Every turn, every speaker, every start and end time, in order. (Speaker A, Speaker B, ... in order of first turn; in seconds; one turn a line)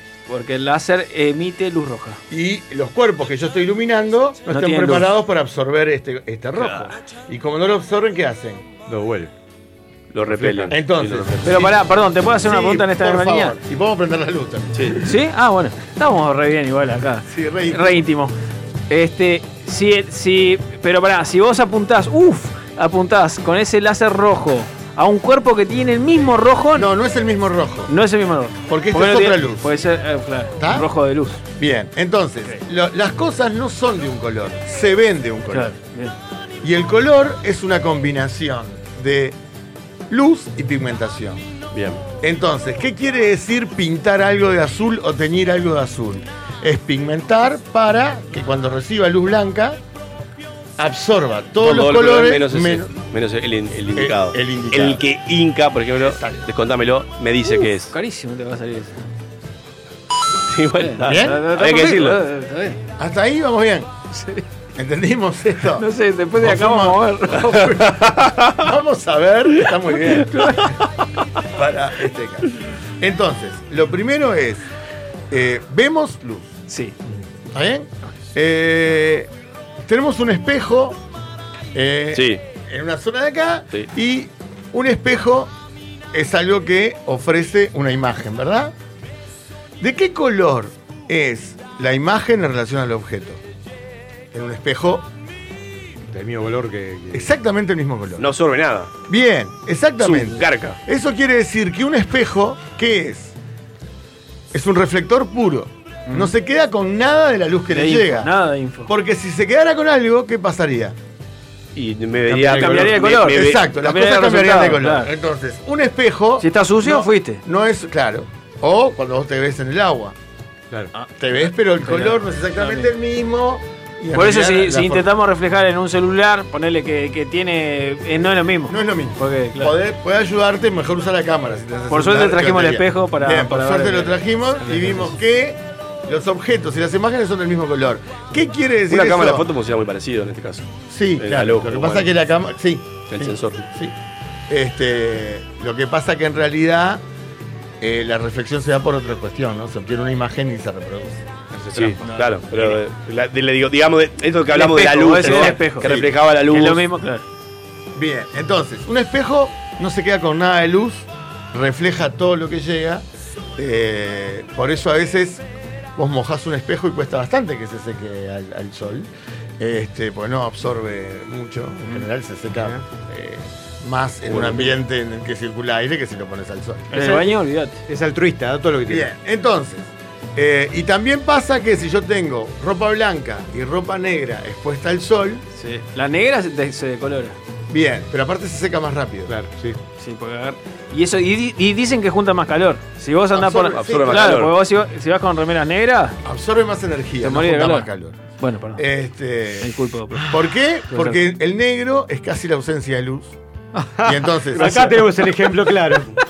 Speaker A: 0.3-2.2
Speaker B: 2.3-8.7
Speaker A: 4.5-5.1
Speaker C: 8.9-9.3
Speaker D: 10.1-11.7
Speaker C: 10.3-10.7
Speaker B: 10.7-11.7
Speaker A: 11.4-13.6
Speaker B: 12.4-15.0
Speaker A: 15.0-18.3
Speaker B: 17.3-18.0
Speaker A: 18.9-26.9
Speaker B: 26.7-27.9
Speaker A: 27.9-31.4
Speaker B: 28.7-29.7
Speaker B: 30.6-30.9
Speaker B: 31.6-35.7
Speaker A: 35.5-36.2
Speaker B: 36.6-39.4
Speaker B: 40.1-41.5
Speaker D: 41.7-42.0
Speaker B: 42.2-49.8
Speaker B: 50.8-52.9
Speaker D: 51.6-57.9
Speaker B: 53.9-55.0
Speaker B: 56.0-56.4
Speaker A: 57.5-59.1
Speaker D: 60.5-62.2
Speaker A: 60.8-62.8
Speaker B: 61.0-61.4
Speaker B: 63.0-63.9
Speaker A: 64.1-64.4
Speaker B: 64.8-68.0
Speaker A: 65.8-67.8
Speaker D: 67.7-68.5
Speaker B: 68.5-70.7
Speaker A: 70.2-70.9
Speaker B: 71.5-74.7
Speaker B: 75.3-76.5
Speaker A: 76.7-77.0
Speaker B: 77.5-79.3
Speaker B: 79.8-81.0
Speaker B: 81.7-85.5
Speaker D: 82.1-82.4
Speaker B: 86.1-88.7
Speaker B: 89.8-93.4
Speaker B: 94.3-95.1
Speaker C: 96.1-97.3
Speaker B: 97.1-98.3
Speaker D: 98.2-98.9
Speaker B: 99.1-103.3
Speaker D: 100.0-100.8
Speaker B: 104.5-108.3
Speaker A: 107.7-108.9
Speaker B: 108.9-111.0
Speaker D: 111.8-113.7
Speaker A: 112.3-115.1
Speaker B: 112.4-120.2
Speaker A: 116.4-117.4
Speaker B: 121.2-125.1
Speaker A: 121.8-122.9
Speaker A: 124.1-129.8
Speaker B: 128.7-139.5
Speaker A: 131.9-135.1
Speaker D: 138.9-142.1
Speaker B: 140.9-144.0
Speaker D: 143.1-143.7
Speaker B: 144.5-147.0
Speaker B: 147.8-151.2
Speaker C: 151.5-152.0
Speaker D: 151.7-156.9
Speaker A: 152.1-152.3
Speaker A: 154.5-155.9
Speaker B: 155.2-156.1
Speaker A: 156.5-157.2
Speaker B: 157.9-165.4
Speaker B: 166.0-177.2
Speaker D: 174.3-174.6
Speaker A: 176.9-177.8
Speaker C: 177.9-179.1
Speaker B: 178.9-185.4
Speaker A: 185.6-187.4
Speaker B: 187.7-189.3
Speaker C: 189.3-189.8
Speaker A: 190.0-196.2
Speaker B: 193.3-194.4
Speaker D: 193.7-194.5
Speaker B: 196.2-198.2
Speaker A: 197.2-198.8
Speaker B: 198.8-199.7
Speaker A: 199.6-200.3
Speaker B: 200.3-203.4
Speaker A: 200.9-201.2
Speaker C: 203.8-206.1
Speaker B: 204.0-205.0
Speaker A: 204.6-205.0